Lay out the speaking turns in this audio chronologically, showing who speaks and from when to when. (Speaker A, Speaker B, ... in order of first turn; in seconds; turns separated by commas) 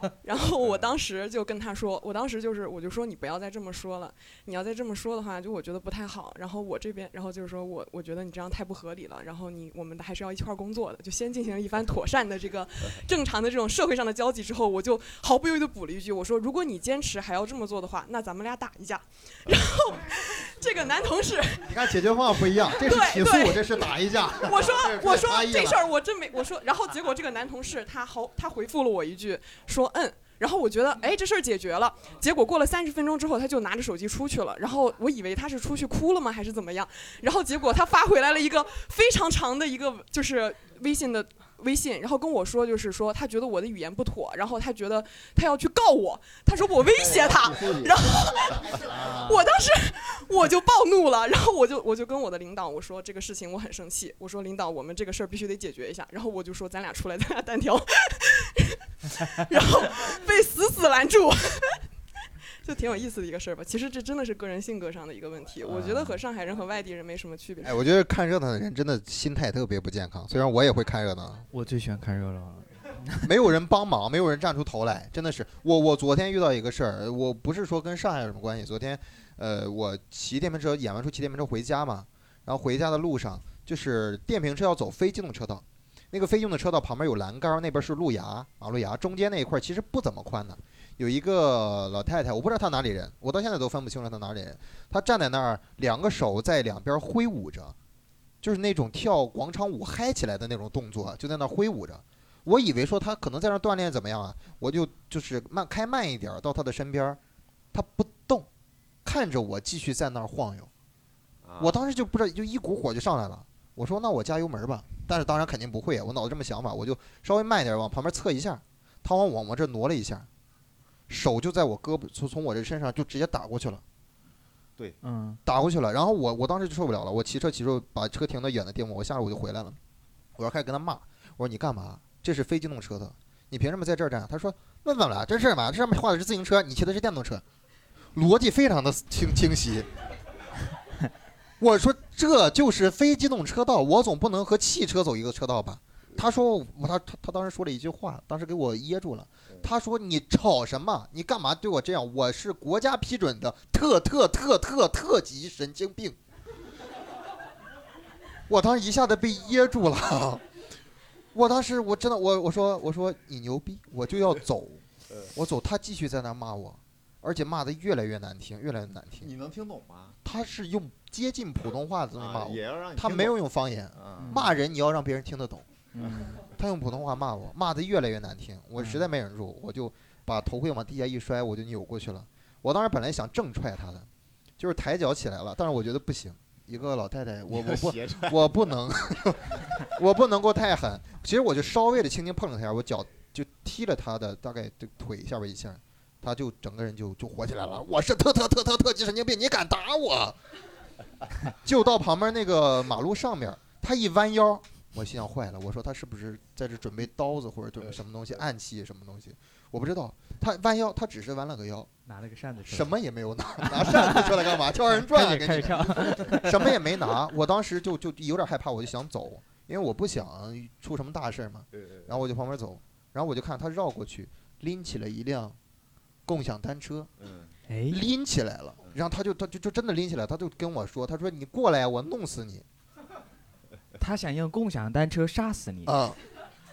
Speaker A: 0.2-61.8, Speaker B: 0.6-0.9, Speaker C: 21.6-25.9, Speaker B: 47.0-47.9, Speaker D: 48.9-49.4, Speaker A: 62.6-67.8, Speaker D: 65.7-66.2, Speaker C: 67.6-71.5, Speaker D: 71.5-73.3, Speaker C: 73.2-97.8, Speaker C: 98.4-107.2, Speaker C: 107.7-108.5, Speaker C: 109.0-110.7, Speaker B: 111.4-111.8, Speaker C: 111.6-120.3, Speaker C: 121.1-123.8, Speaker D: 125.0-125.4, Speaker C: 125.5-129.8, Speaker C: 130.4-137.4, Speaker C: 138.2-139.9, Speaker C: 141.6-156.2, Speaker C: 158.5-160.4, Speaker C: 161.3-164.8, Speaker C: 165.3-169.3, Speaker B: 169.2-170.2, Speaker C: 170.2-175.7, Speaker B: 172.2-173.4, Speaker B: 173.9-174.4, Speaker D: 174.2-174.5, Speaker D: 175.9-176.4, Speaker C: 176.3-200.4, Speaker D: 178.8-179.1, Speaker B: 187.5-188.5, Speaker C: 201.5-211.9, Speaker D: 212.1-212.9, Speaker C: 212.7-225.6, Speaker D: 213.6-216.8, Speaker B: 221.8-222.1, Speaker C: 226.3-227.1, Speaker B: 227.2-227.5, Speaker D: 227.7-228.1, Speaker C: 227.9-232.7, Speaker D: 234.0-236.0, Speaker C: 235.9-236.2